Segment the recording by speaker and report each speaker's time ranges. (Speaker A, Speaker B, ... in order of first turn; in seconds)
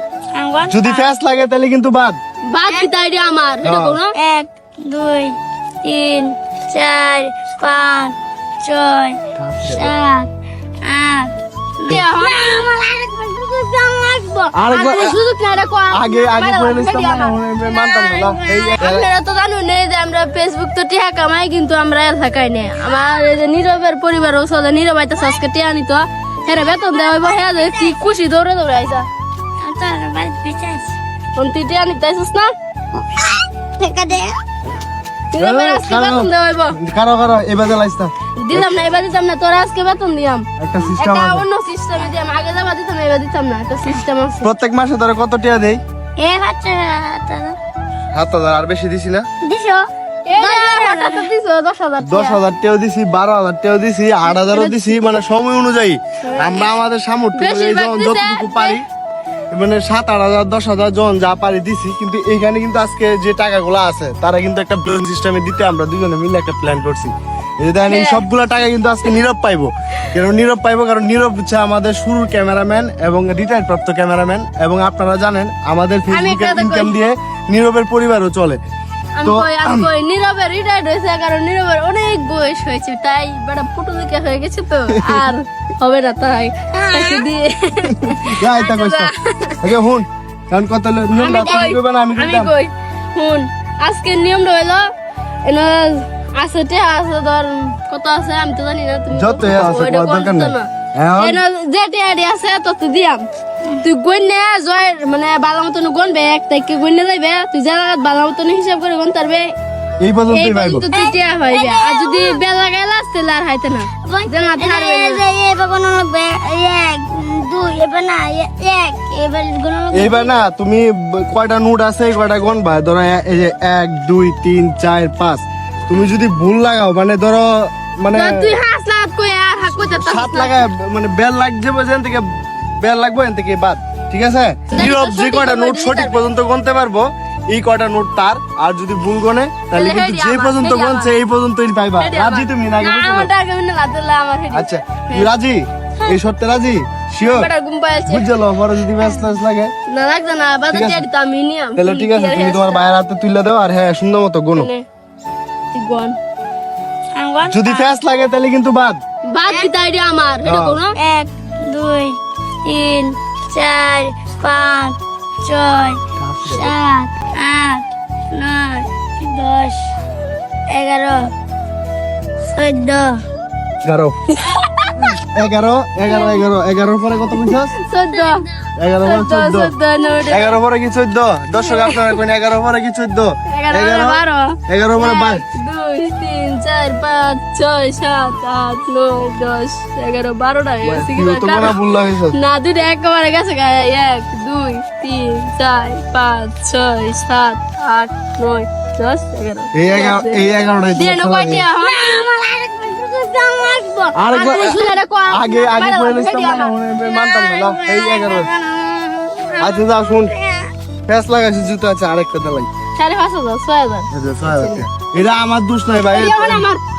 Speaker A: 0.3-1.1, 4.1-10.3, 10.8-13.9, 17.7-18.8, 26.8-27.9, 29.6-30.9, 33.0-34.4, 46.2-47.5, 49.4-51.3, 86.8-87.2, 110.9-112.4, 114.0-120.3, 157.2-157.9, 160.9-169.9, 170.7-171.3, 172.5-173.2, 201.8-203.0, 207.0-210.7
Speaker B: 0.6-2.2, 3.6-4.0, 9.4-9.9, 14.5-15.2, 15.9-19.1, 35.4-38.7, 40.6-41.5, 44.4-45.8, 48.1-49.3, 52.0-58.8, 59.5-78.6, 79.2-79.9, 84.9-85.3, 88.2-92.5, 99.1-101.4, 110.0-110.8, 119.9-128.5, 129.8-132.2, 132.8-143.3, 144.5-147.5, 148.0-149.7, 150.7-151.0, 151.8-154.7, 157.4-159.0, 160.4-160.8, 166.2-166.8, 173.8-174.2, 175.0-177.7, 178.8-179.7, 180.3-185.4, 190.8-192.3, 199.8-201.7, 204.1-208.5, 209.6-210.3, 211.1-212.7, 214.1-216.7
Speaker C: 2.5-4.1, 11.9-17.4, 18.8-29.1, 31.4-32.5, 35.3-36.8, 38.4-44.5, 50.3-52.4, 54.5-55.1, 56.2-56.7, 57.4-58.8, 67.9-68.3, 76.1-77.0, 79.2-89.6, 91.1-94.9, 95.4-103.2, 103.8-109.5, 110.3-115.2, 128.1-130.7, 134.7-136.2, 139.7-141.1, 141.9-145.3, 147.2-148.3, 149.9-152.9, 154.6-154.8, 155.7-156.2, 159.3-160.9, 174.4-175.1, 177.7-178.4, 179.0-180.6, 181.6-182.1, 183.5-191.8, 192.3-206.8, 212.9-214.8, 216.1-216.8